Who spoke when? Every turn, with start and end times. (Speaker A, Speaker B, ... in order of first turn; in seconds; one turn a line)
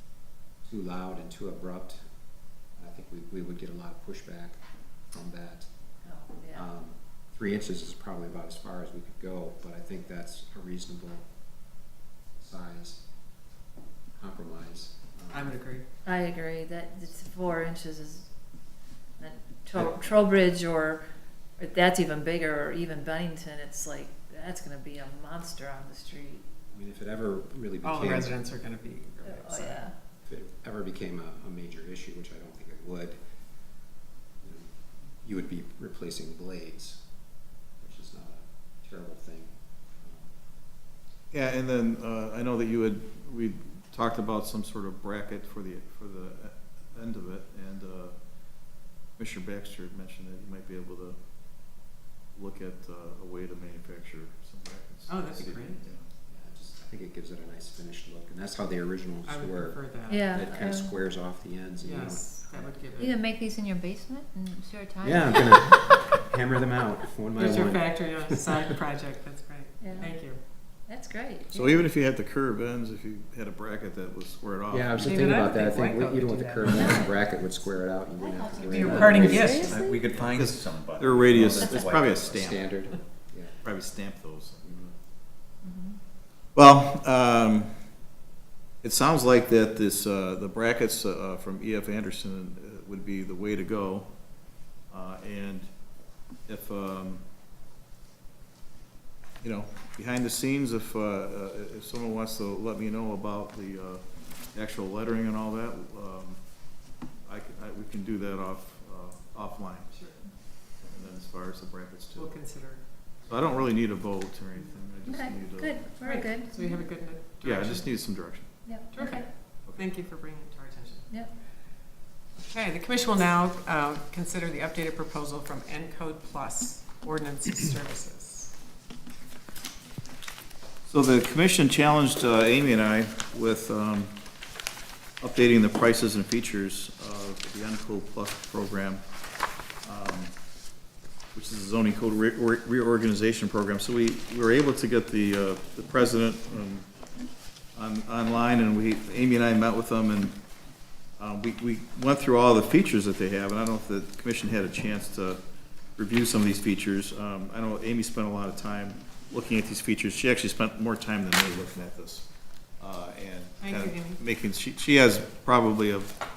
Speaker A: 0.7-2.0
Speaker A: 2.8-4.6
Speaker A: 5.1-5.7
Speaker B: 6.0-6.6
Speaker A: 6.5-11.2
Speaker A: 12.4-13.0
Speaker A: 14.2-15.6
Speaker C: 15.3-15.8
Speaker B: 16.1-18.3
Speaker B: 19.2-21.0
Speaker B: 21.6-26.5
Speaker A: 26.7-28.4
Speaker C: 27.8-29.8
Speaker B: 29.2-29.9
Speaker A: 30.2-33.2
Speaker A: 34.4-37.0
Speaker A: 37.8-40.3
Speaker D: 41.3-48.2
Speaker D: 49.2-51.2
Speaker D: 52.4-56.0
Speaker C: 55.1-55.8
Speaker A: 56.3-59.8
Speaker C: 59.3-60.5
Speaker B: 60.1-61.0
Speaker A: 60.3-63.0
Speaker C: 61.8-63.2
Speaker B: 63.0-66.1
Speaker A: 65.0-68.6
Speaker C: 67.4-70.4
Speaker B: 69.8-70.1
Speaker B: 70.9-71.8
Speaker D: 71.5-75.4
Speaker A: 74.7-79.7
Speaker C: 75.0-77.1
Speaker B: 76.7-77.2
Speaker B: 78.2-80.0
Speaker C: 78.6-79.8
Speaker E: 78.9-82.6
Speaker D: 80.1-82.7
Speaker A: 82.4-83.5
Speaker D: 83.6-84.7
Speaker A: 84.6-84.9
Speaker B: 85.6-86.0
Speaker D: 86.5-87.7
Speaker D: 88.8-94.1
Speaker D: 94.9-95.7
Speaker D: 96.5-97.2
Speaker D: 99.4-104.0
Speaker D: 104.5-106.4
Speaker D: 107.3-109.9
Speaker D: 110.8-112.4
Speaker C: 112.2-112.8
Speaker D: 113.3-115.8
Speaker B: 115.1-116.8
Speaker C: 116.0-117.9
Speaker D: 117.4-118.5
Speaker B: 118.7-119.3
Speaker C: 118.9-121.1
Speaker C: 122.5-128.5
Speaker D: 130.9-134.1
Speaker D: 135.2-139.0
Speaker D: 139.8-140.3
Speaker D: 141.3-146.9
Speaker D: 147.8-150.3
Speaker D: 151.2-155.4
Speaker D: 156.0-162.3
Speaker D: 162.8-166.2
Speaker C: 163.6-164.2